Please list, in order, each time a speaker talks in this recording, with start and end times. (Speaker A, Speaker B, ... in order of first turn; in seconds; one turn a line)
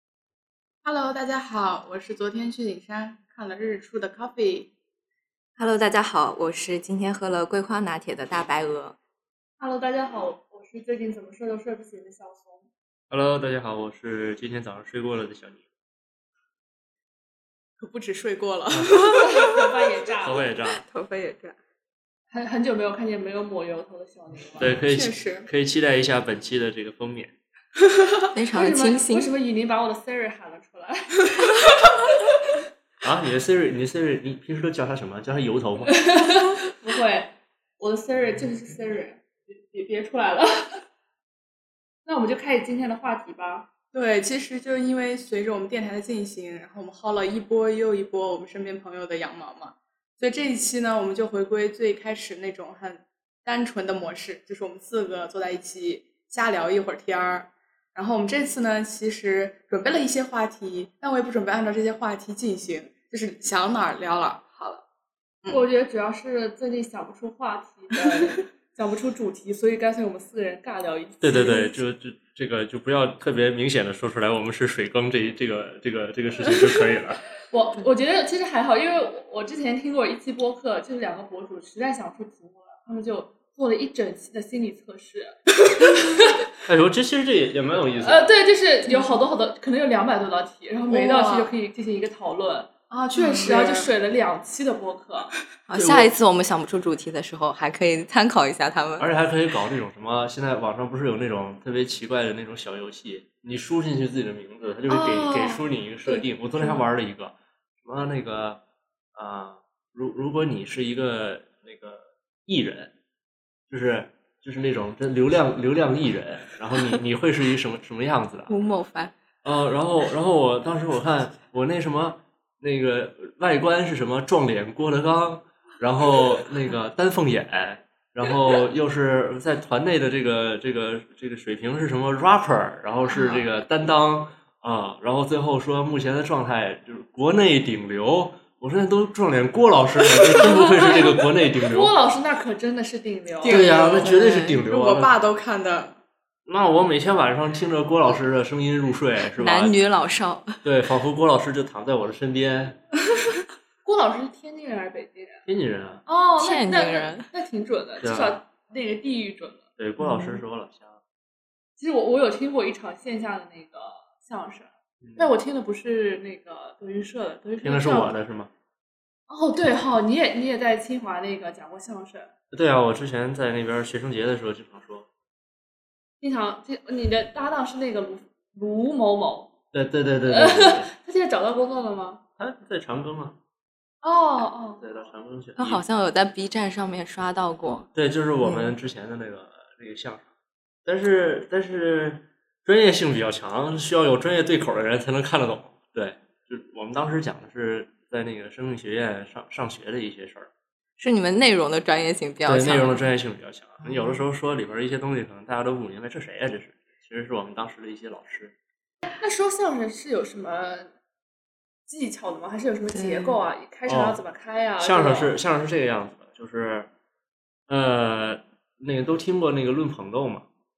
Speaker A: 0.8-4.7
Speaker B: 5.6-8.9
Speaker C: 9.6-12.6
Speaker D: 13.1-15.6
Speaker A: 17.8-19.8
Speaker D: 18.7-19.2
Speaker C: 19.2-20.4
Speaker D: 20.2-20.8
Speaker B: 20.7-21.6
Speaker C: 22.3-24.7
Speaker D: 24.6-27.3
Speaker A: 24.9-25.5
Speaker B: 28.3-29.3
Speaker C: 28.5-31.7
Speaker D: 33.0-36.0
Speaker C: 36.0-40.8
Speaker C: 42.0-43.7
Speaker A: 43.9-64.8
Speaker C: 65.5-71.6
Speaker D: 71.2-77.2
Speaker C: 77.5-86.4
Speaker D: 86.7-88.3
Speaker C: 88.0-92.7
Speaker B: 88.9-89.2
Speaker A: 90.9-91.5
Speaker A: 92.9-93.9
Speaker B: 93.2-93.5
Speaker C: 93.3-95.3
Speaker B: 95.7-99.1
Speaker D: 95.8-96.1
Speaker D: 99.0-108.6
Speaker B: 104.9-106.8
Speaker D: 109.2-112.9
Speaker D: 113.7-118.5
Speaker B: 118.5-119.1
Speaker D: 119.4-141.9
Speaker B: 133.1-133.5
Speaker C: 141.6-143.7
Speaker A: 143.4-145.9
Speaker D: 143.5-145.1
Speaker B: 144.0-144.6
Speaker D: 146.5-149.8
Speaker B: 149.4-150.6
Speaker D: 150.6-152.8
Speaker C: 153.8-155.5
Speaker D: 155.5-156.0
Speaker C: 156.1-159.6
Speaker B: 156.4-157.2
Speaker D: 158.0-158.4
Speaker D: 159.8-161.0
Speaker B: 160.0-160.4
Speaker C: 161.8-168.2
Speaker D: 165.0-165.3
Speaker D: 167.6-168.5
Speaker C: 169.3-172.3
Speaker D: 172.5-175.1
Speaker C: 176.2-179.5
Speaker D: 179.7-180.9
Speaker C: 180.2-182.2
Speaker D: 182.4-183.4
Speaker C: 184.0-184.8
Speaker D: 184.8-185.8
Speaker B: 185.6-187.9
Speaker D: 187.9-190.2
Speaker B: 188.4-188.7
Speaker D: 190.8-200.5
Speaker B: 201.0-203.1
Speaker D: 202.4-208.5
Speaker B: 203.8-204.2
Speaker C: 209.2-210.9
Speaker C: 211.9-215.4
Speaker B: 212.9-213.4
Speaker D: 213.9-214.2
Speaker D: 214.8-216.9
Speaker D: 217.7-220.4